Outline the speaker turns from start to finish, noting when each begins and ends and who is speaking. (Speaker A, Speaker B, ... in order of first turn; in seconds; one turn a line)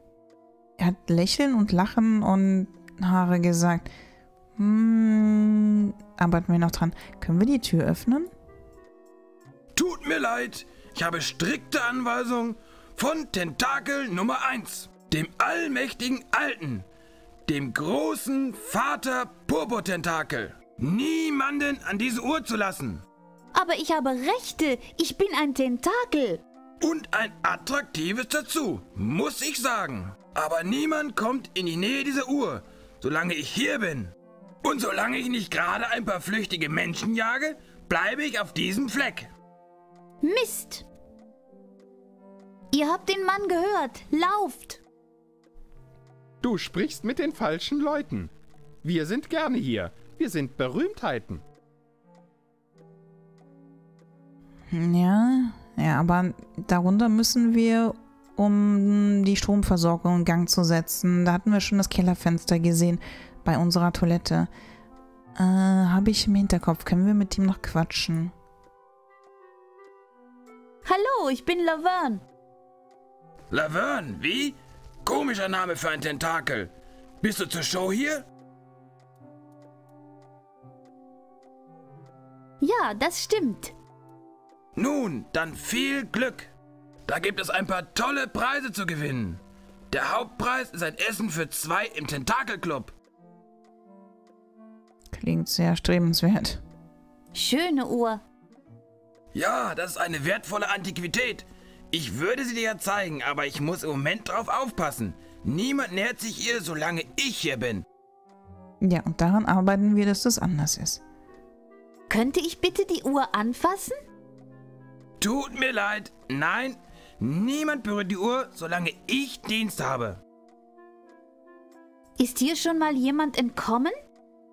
Speaker A: 0.8-3.9
Speaker A: 4.5-8.3
Speaker B: 9.7-16.8
Speaker B: 17.5-23.0
Speaker C: 23.5-26.4
Speaker B: 26.8-39.3
Speaker C: 40.2-40.9
Speaker C: 42.7-44.8
Speaker D: 46.4-48.3
Speaker D: 48.8-51.4
Speaker A: 54.7-64.5
Speaker A: 65.3-68.3
Speaker C: 70.8-72.2
Speaker B: 73.5-78.2
Speaker C: 82.6-83.7
Speaker B: 84.8-86.5
Speaker B: 87.0-92.9
Speaker A: 95.1-96.6
Speaker C: 97.3-98.2
Speaker B: 99.3-107.8
Speaker A: 108.8-111.0
Speaker C: 112.1-114.0
Speaker B: 115.2-120.2
Speaker C: 122.2-124.0